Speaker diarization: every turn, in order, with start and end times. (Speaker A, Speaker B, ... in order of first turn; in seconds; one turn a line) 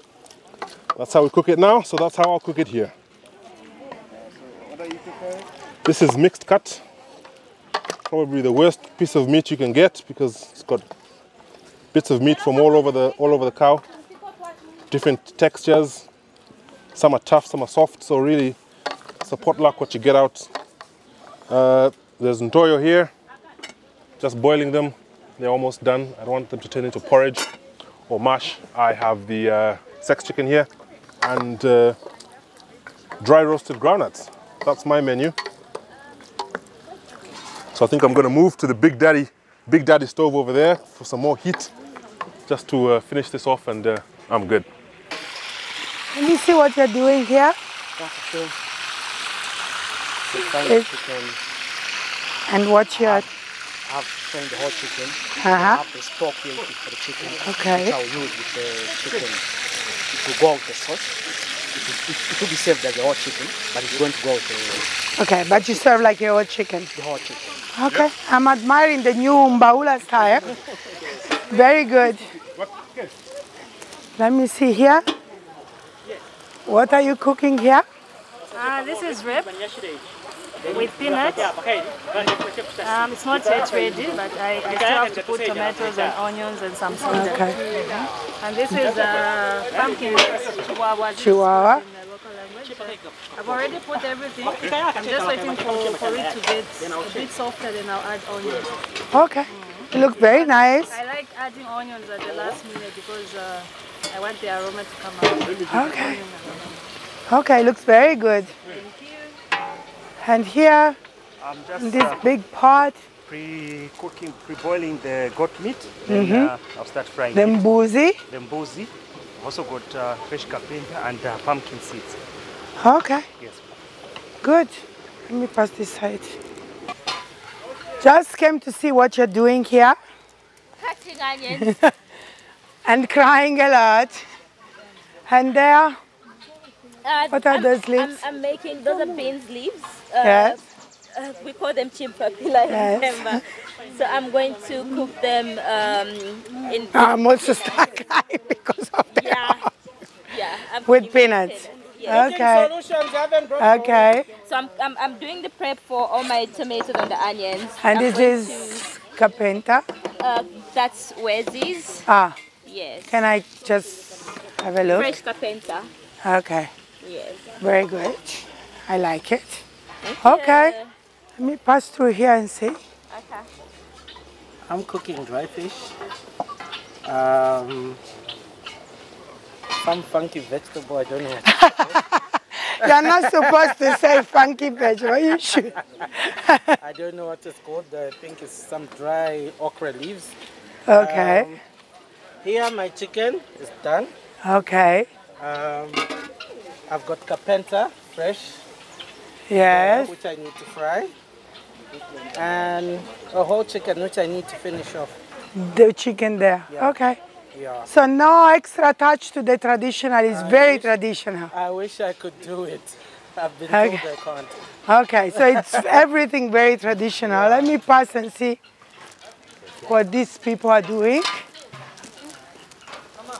Speaker A: 0.9-2.9
Speaker A: 5.8-6.8
Speaker A: 8.1-10.8
Speaker A: 11.9-13.8
Speaker A: 14.9-16.1
Speaker A: 16.9-18.6
Speaker A: 19.2-20.5
Speaker A: 21.5-23.1
Speaker A: 24.2-27.5
Speaker A: 28.1-30.7
Speaker A: 31.2-32.0
Speaker A: 33.2-35.4
Speaker A: 37.7-41.7
Speaker A: 42.5-44.7
Speaker B: 46.1-47.6
Speaker C: 48.0-48.6
Speaker C: 50.3-51.4
Speaker B: 52.5-53.2
Speaker C: 52.9-53.3
Speaker C: 53.9-59.5
Speaker B: 55.4-55.8
Speaker B: 57.5-58.0
Speaker C: 60.1-64.9
Speaker B: 65.2-66.9
Speaker C: 66.9-67.5
Speaker B: 67.8-70.5
Speaker B: 71.4-72.3
Speaker B: 74.2-75.0
Speaker B: 76.7-77.9
Speaker D: 78.5-79.6
Speaker D: 80.7-81.6
Speaker D: 82.8-98.7
Speaker B: 87.1-87.6
Speaker B: 91.2-91.8
Speaker B: 99.1-101.0
Speaker D: 99.5-106.8
Speaker B: 105.7-106.2
Speaker B: 107.3-108.5
Speaker B: 110.2-111.0
Speaker E: 111.4-112.3
Speaker B: 111.8-113.0
Speaker E: 113.2-117.7
Speaker B: 116.1-116.5
Speaker B: 117.3-118.2
Speaker E: 118.3-122.2
Speaker B: 122.8-123.3
Speaker B: 124.4-126.4
Speaker B: 128.0-130.0
Speaker F: 130.8-131.7
Speaker B: 131.5-131.9
Speaker B: 132.8-134.2
Speaker B: 135.3-136.0
Speaker F: 137.0-140.6
Speaker B: 137.3-138.2
Speaker B: 140.2-140.6
Speaker F: 141.1-147.1
Speaker B: 142.6-143.4
Speaker B: 146.9-149.7
Speaker F: 149.1-149.6
Speaker F: 150.3-152.2
Speaker B: 150.8-152.8
Speaker G: 152.1-154.2
Speaker B: 153.6-154.3
Speaker F: 154.4-158.8
Speaker B: 157.8-159.8
Speaker F: 160.2-162.1
Speaker B: 162.1-162.4
Speaker F: 162.7-163.2
Speaker B: 163.1-165.2
Speaker F: 164.9-165.9
Speaker B: 166.2-166.7
Speaker F: 167.0-167.5
Speaker B: 167.6-169.6
Speaker F: 170.0-170.9
Speaker B: 170.2-170.8
Speaker B: 171.4-172.8
Speaker F: 173.1-173.5
Speaker G: 174.7-175.9
Speaker G: 177.1-178.0
Speaker G: 179.8-182.0
Speaker B: 181.5-182.2
Speaker B: 182.7-186.8
Speaker G: 182.8-184.2
Speaker G: 186.8-190.3
Speaker B: 190.9-191.6
Speaker G: 190.9-191.6
Speaker G: 192.4-194.1
Speaker B: 194.4-195.1
Speaker G: 195.4-196.1
Speaker G: 196.9-198.6
Speaker B: 199.5-200.1
Speaker G: 199.5-201.1
Speaker G: 202.3-205.1
Speaker B: 205.6-207.2
Speaker G: 206.7-207.0
Speaker G: 207.5-207.9
Speaker B: 207.9-211.5
Speaker G: 210.3-214.5
Speaker B: 213.7-214.0
Speaker B: 214.9-218.6
Speaker G: 215.3-216.1
Speaker G: 217.2-217.8
Speaker B: 219.9-221.4